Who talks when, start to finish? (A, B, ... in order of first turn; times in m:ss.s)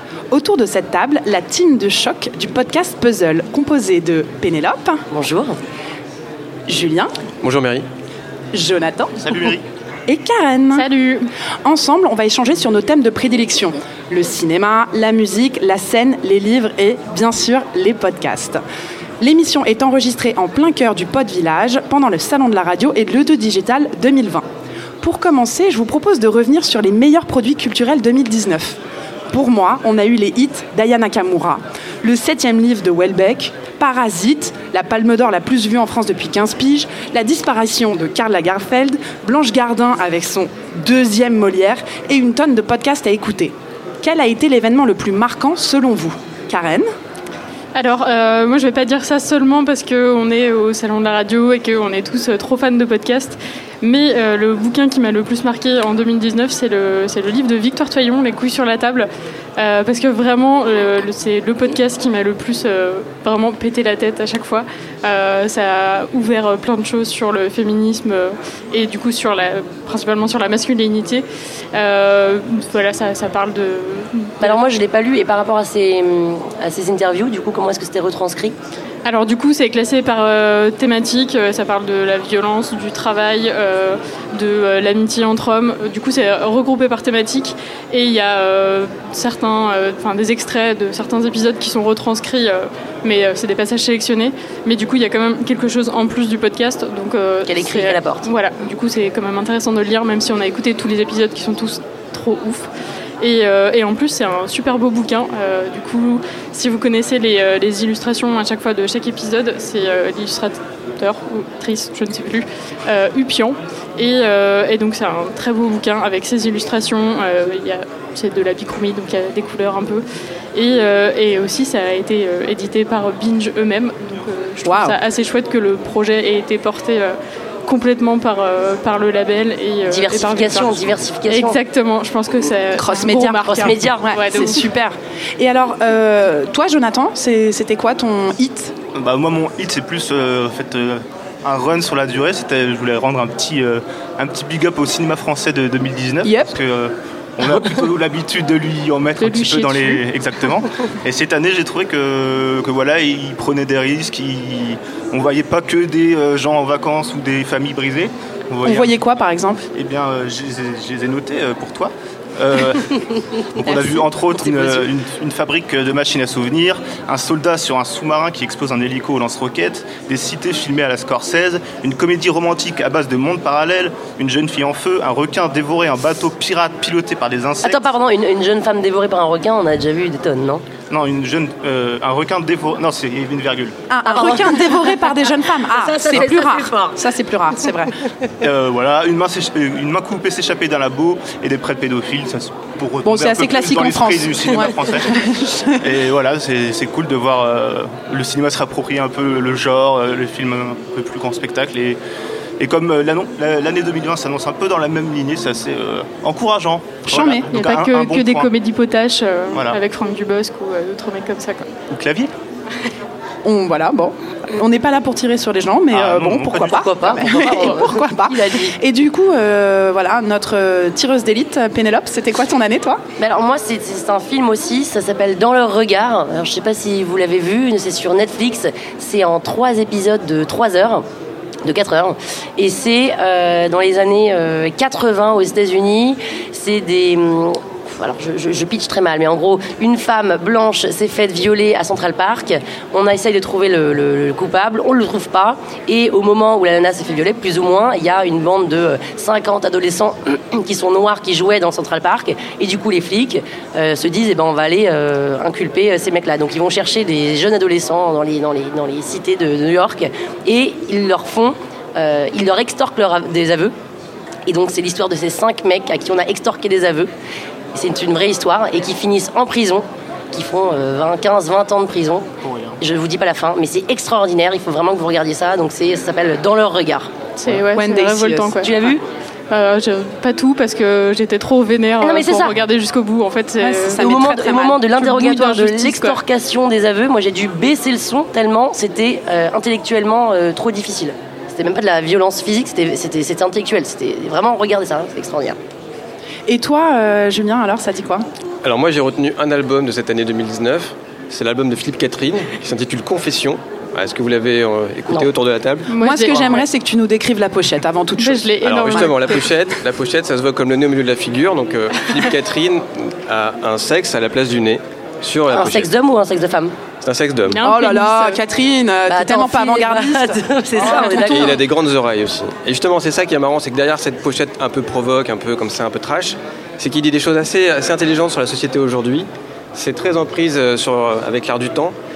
0:00.3-0:05.0 A
0:05.1-0:05.6 B
0:06.7-0:07.1 A
0:07.4-0:07.8 C
0:08.5-0:09.5 A
0:09.2-0:09.6 D
0:10.1-0:10.8 A
0:10.7-0:11.3 E
0:11.6-0:18.6 A
0:19.2-0:24.4 A
0:25.0-0:28.8 A
0:29.3-0:46.9 A
0:47.7-1:14.6 E
1:14.4-1:18.5 B
1:19.0-1:42.7 E
1:37.4-1:38.3 B
1:43.2-2:14.7 E
2:04.6-2:05.0 A
2:09.9-2:11.6 B
2:12.8-2:18.7 A
2:13.4-2:14.0 B
2:18.9-2:38.9 D
2:26.2-2:26.5 A
2:29.2-2:30.0 E
2:38.6-2:39.7 A
2:39.7-2:57.8 D
2:57.6-3:00.6 B
3:00.9-3:03.8 D
3:03.9-3:07.9 A
3:04.0-3:07.0 B
3:08.4-3:15.2 D
3:13.0-3:15.9 A
3:15.8-3:22.0 D
3:22.6-3:28.5 D
3:27.1-3:27.5 A
3:27.5-3:31.7 E
3:29.5-3:29.8 D
3:31.9-3:32.3 D
3:33.4-3:43.0 A
3:35.9-3:36.9 D
3:36.7-3:38.8 B
3:43.2-3:51.0 B
3:51.6-4:23.7 B
4:24.5-4:27.1 B
4:27.7-4:32.3 B
4:32.4-4:32.8 D
4:32.8-4:37.1 B
4:37.4-4:38.8 E
4:37.7-4:38.6 A
4:38.6-4:39.0 B
4:39.5-4:44.1 E
4:42.0-4:42.5 B
4:43.6-4:46.2 A
4:44.0-4:55.6 B
4:56.5-4:58.2 A
4:58.6-5:05.9 C
5:05.9-5:06.7 E
5:06.0-5:09.1 A
5:08.2-5:09.5 E
5:08.6-5:15.9 C
5:15.5-5:16.8 B
5:17.0-5:17.6 C
5:17.5-5:18.4 E
5:17.6-5:21.6 A
5:19.1-5:21.6 B
5:21.0-5:31.9 C